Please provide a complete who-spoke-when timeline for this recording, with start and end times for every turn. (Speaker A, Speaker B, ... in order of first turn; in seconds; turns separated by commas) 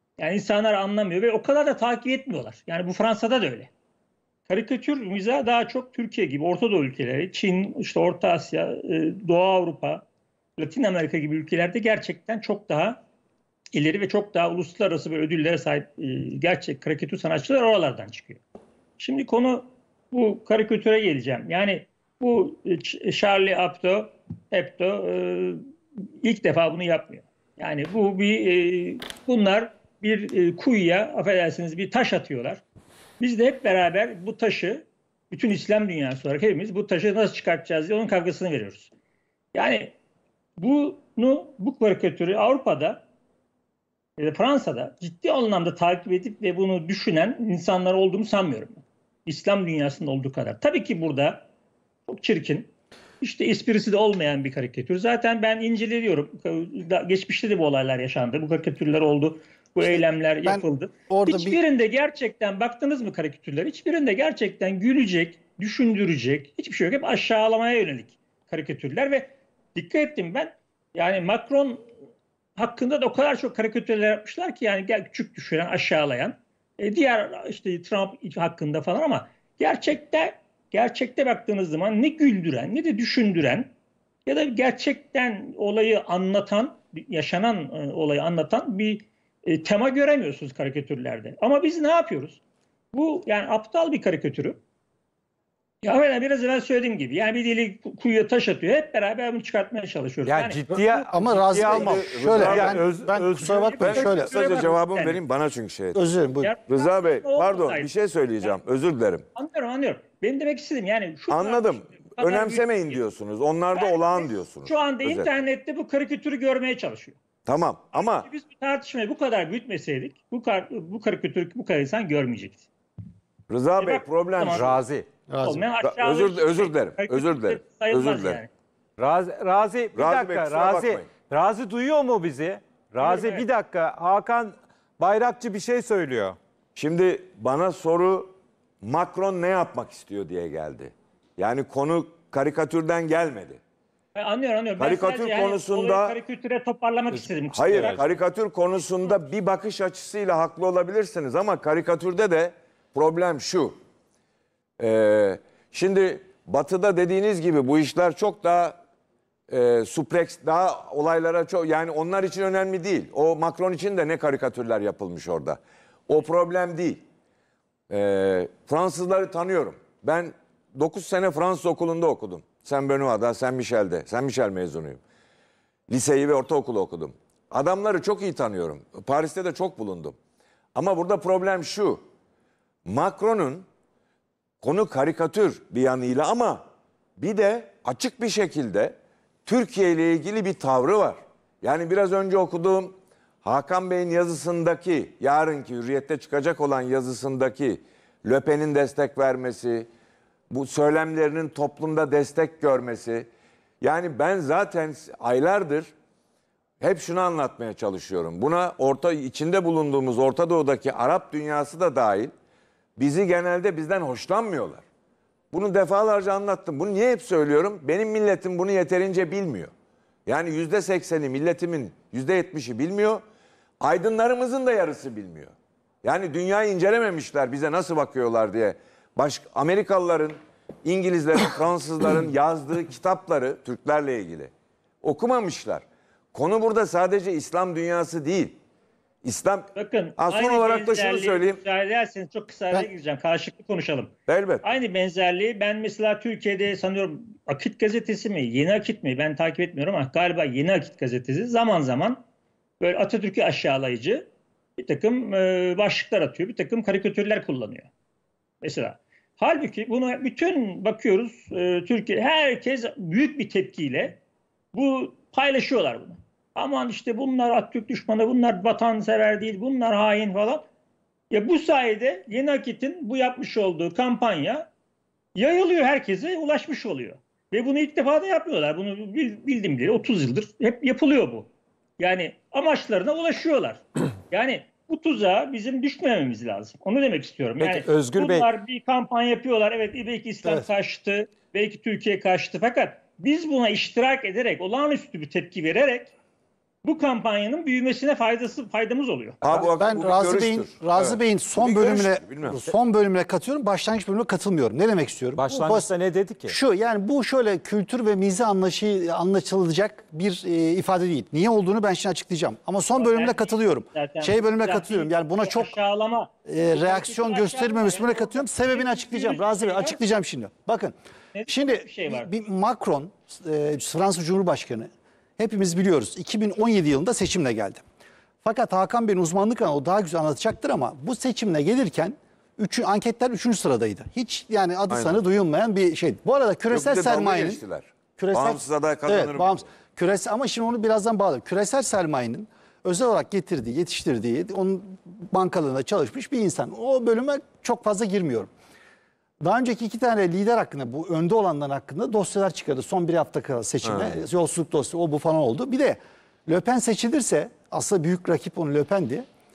Speaker A: 0.2-3.7, Speaker A: 4.5-10.1, Speaker A: 10.6-13.0, Speaker A: 13.7-18.4, Speaker A: 19.0-25.7, Speaker A: 26.2-32.6, Speaker A: 33.2-38.9, Speaker A: 39.5-40.0, Speaker A: 40.6-43.0, Speaker A: 44.2-51.5, Speaker A: 52.1-52.7, Speaker A: 53.2-71.9, Speaker B: 59.8-61.6, Speaker A: 72.6-83.7, Speaker A: 84.3-92.4, Speaker A: 92.9-94.6, Speaker A: 95.8-101.1, Speaker C: 100.2-103.8, Speaker B: 100.8-104.3, Speaker D: 101.7-102.8, Speaker A: 103.8-105.2, Speaker D: 103.8-106.0, Speaker B: 105.9-106.5, Speaker A: 106.4-107.9, Speaker D: 106.7-109.3, Speaker A: 109.4-113.0, Speaker D: 111.3-115.3, Speaker A: 113.8-117.2, Speaker D: 117.5-118.3, Speaker A: 117.9-122.7, Speaker D: 123.5-124.8, Speaker A: 123.8-124.8, Speaker C: 124.5-125.1, Speaker B: 125.3-125.6, Speaker A: 125.4-128.5, Speaker D: 125.8-128.4, Speaker C: 129.0-136.4, Speaker D: 129.9-131.1, Speaker A: 133.0-133.4, Speaker D: 136.8-143.6, Speaker A: 144.1-148.2, Speaker D: 144.8-146.2, Speaker D: 147.5-153.8, Speaker C: 147.7-148.0, Speaker D: 154.8-158.8, Speaker D: 159.5-167.0, Speaker D: 167.9-175.0, Speaker D: 175.9-180.2, Speaker D: 180.8-182.0, Speaker D: 182.8-183.7, Speaker D: 184.6-186.7, Speaker D: 187.2-199.9, Speaker D: 200.5-203.3, Speaker D: 203.8-205.9, Speaker D: 206.8-212.3, Speaker D: 213.0-214.8, Speaker D: 215.5-219.7, Speaker D: 220.3-223.2, Speaker D: 223.8-238.6, Speaker D: 239.2-241.6, Speaker A: 239.8-244.1, Speaker D: 244.3-244.6, Speaker A: 244.6-252.2, Speaker A: 252.8-257.9, Speaker A: 258.6-264.2, Speaker A: 264.7-270.6, Speaker A: 271.3-274.7, Speaker A: 275.4-296.1, Speaker C: 287.6-288.5, Speaker A: 296.8-299.4, Speaker D: 299.4-302.6, Speaker B: 299.5-305.9, Speaker C: 305.4-306.6, Speaker B: 306.5-315.8, Speaker A: 313.0-320.0, Speaker B: 316.5-320.9, Speaker A: 321.3-322.3, Speaker B: 321.5-327.8, Speaker B: 328.4-337.6, Speaker D: 334.9-335.2, Speaker D: 336.7-339.6, Speaker B: 338.2-348.5, Speaker B: 349.4-359.2, Speaker D: 353.8-354.2